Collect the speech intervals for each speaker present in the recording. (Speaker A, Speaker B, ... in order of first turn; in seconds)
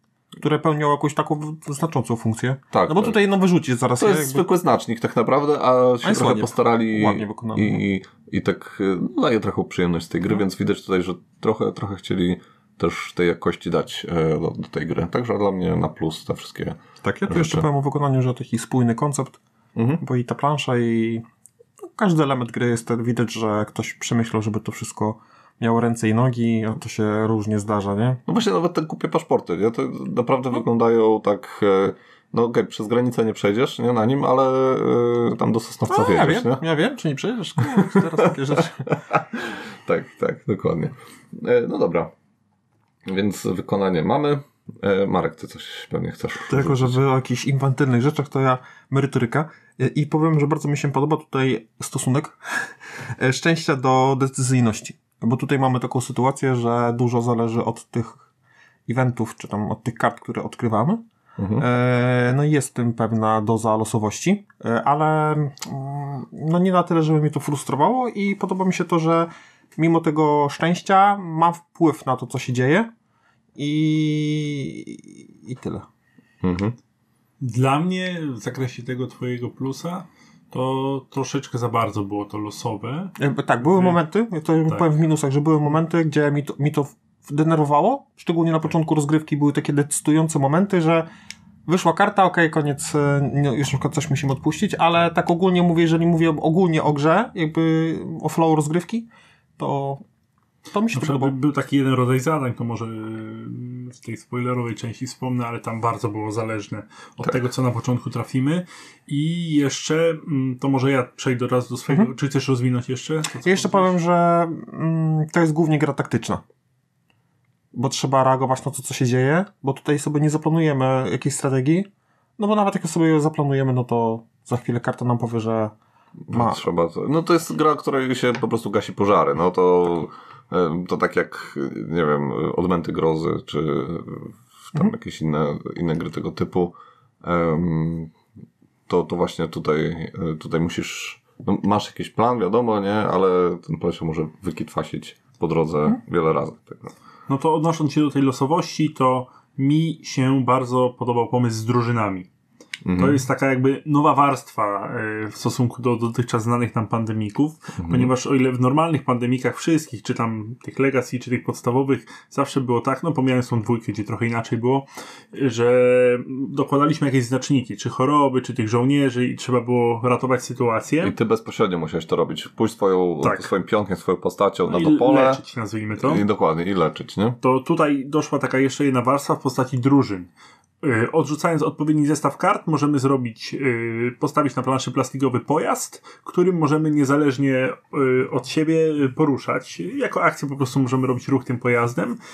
Speaker A: 0.4-4.5, 6.0-7.8, 17.0-19.4, 20.0-21.2, 21.8-28.2, 35.9-38.8, 46.5-58.2, 58.9-61.0, 61.6-72.9, 73.6-75.9, 83.2-91.1, 91.7-100.0, 100.7-101.3, 113.5-116.4, 117.7-125.7, 126.3-126.6
Speaker B: 2.7-3.2, 4.0-17.6, 19.8-20.0, 28.3-36.6, 37.8-42.1, 43.1-47.0, 61.4-61.7, 76.4-76.8, 126.3-138.1, 138.9-146.9, 152.8-153.2, 157.8-158.1, 171.0-175.4, 176.0-177.4
Speaker C: 77.4-83.1, 100.9-113.9, 147.3-152.3, 153.0-171.2, 173.2-173.5, 174.7-176.2, 177.4-180.3, 180.8-192.2